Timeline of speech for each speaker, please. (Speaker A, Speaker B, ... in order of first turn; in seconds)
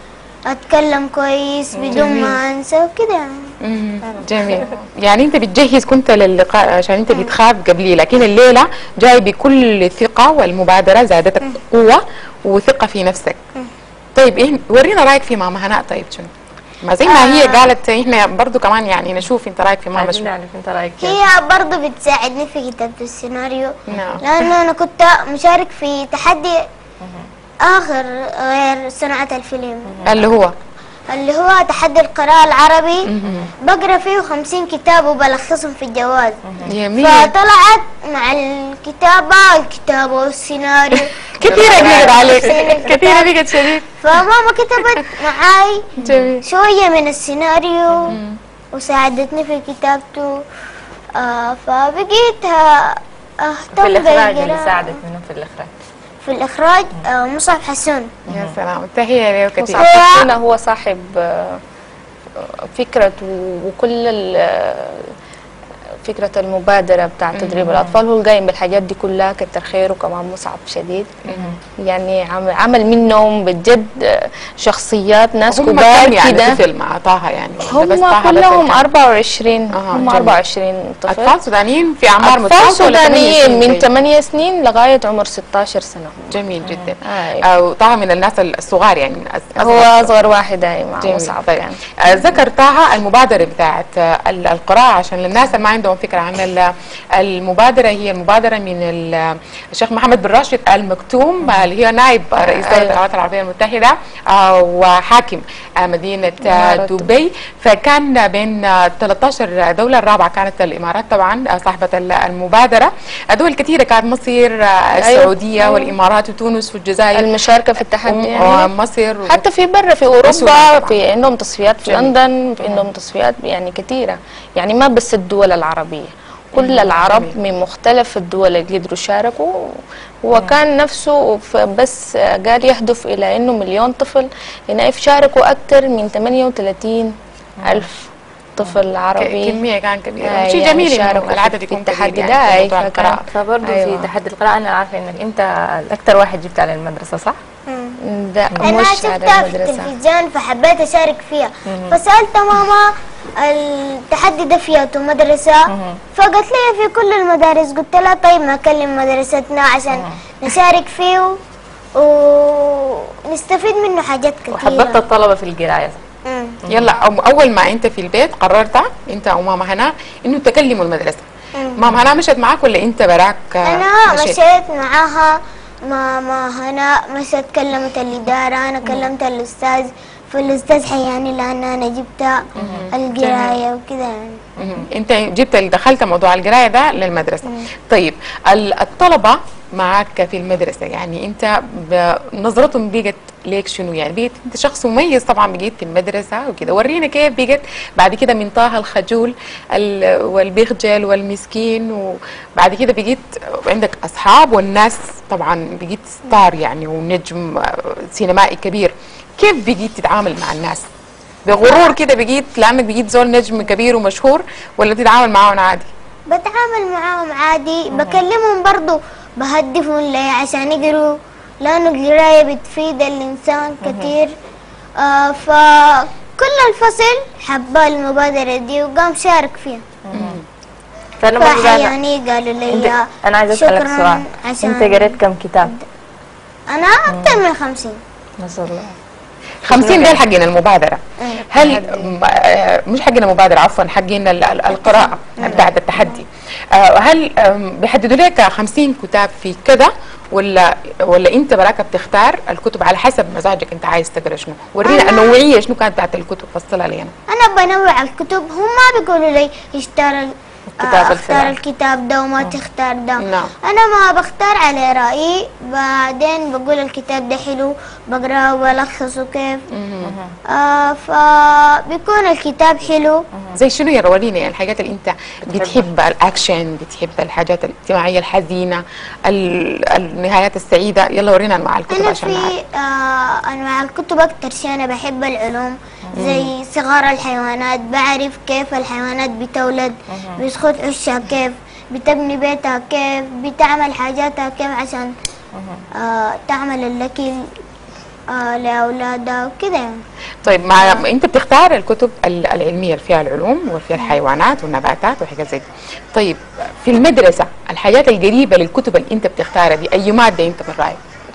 Speaker A: 0.5-3.5, 17.0-17.7, 21.0-26.7, 27.6-30.0, 31.1-33.1, 33.6-36.4, 37.0-48.2, 48.7-50.4, 51.2-55.0, 56.2-58.1, 59.8-60.2, 147.7-148.0, 148.6-161.4, 161.9-165.0, 166.2-166.6, 171.6-171.8, 173.6-184.5, 216.3-224.3, 225.0-229.9, 231.4-235.8, 236.7-238.0, 244.8-246.1, 254.8-255.4, 257.3-269.6, 270.5-273.2, 281.9-295.1, 296.0-297.5, 298.3-300.0, 300.8-301.0
Speaker B: 1.7-2.3, 19.9-21.2, 27.0-27.3, 29.9-30.2, 36.5-36.8, 41.7-42.3, 53.7-55.7, 58.3-58.6, 71.3-71.6, 86.6-86.9, 137.6-137.9, 143.3-147.4, 151.7-152.0, 155.7-156.0, 159.9-160.2, 164.5-166.0, 166.6-166.9, 182.6-182.9, 184.6-184.9, 217.9-218.2, 223.8-224.1, 230.1-230.4, 231.2-231.9, 232.7-235.8, 237.1-237.4, 238.4-238.9, 239.7-240.2, 245.4-245.7, 260.8-261.6, 270.0-270.3, 275.4-275.9, 286.1-286.3, 290.1-290.4, 295.6-295.8
Speaker C: 1.9-2.2, 3.6-13.4, 14.1-16.3, 16.8-20.3, 23.9-24.2, 30.0-30.5, 33.1-33.5, 36.6-37.3, 41.3-44.0, 46.0-46.4, 48.1-48.4, 58.3-60.3, 67.3-68.0, 71.2-71.5, 75.5-78.9, 79.7-80.4, 81.1-83.9, 86.3-90.1, 91.0-117.2, 118.0-119.4, 120.2-121.0, 121.8-122.1, 126.6-127.3, 139.2-143.2, 166.7-174.4, 182.6-183.6, 184.6-210.8, 211.4-215.9, 230.1-230.4, 239.6-257.1, 263.2-263.5, 269.7-270.1, 273.5-282.5, 286.1-286.5, 300.4-311.0
Speaker D: 59.6-61.6, 62.4-65.1, 66.0-71.2, 71.9-76.6, 77.6-81.4, 82.2-86.4, 87.0-87.4, 89.6-91.8, 102.4-103.0, 106.4-107.1, 115.0-115.9, 117.1-118.7, 119.2-139.6, 140.2-144.1, 148.0-149.9, 241.4-242.3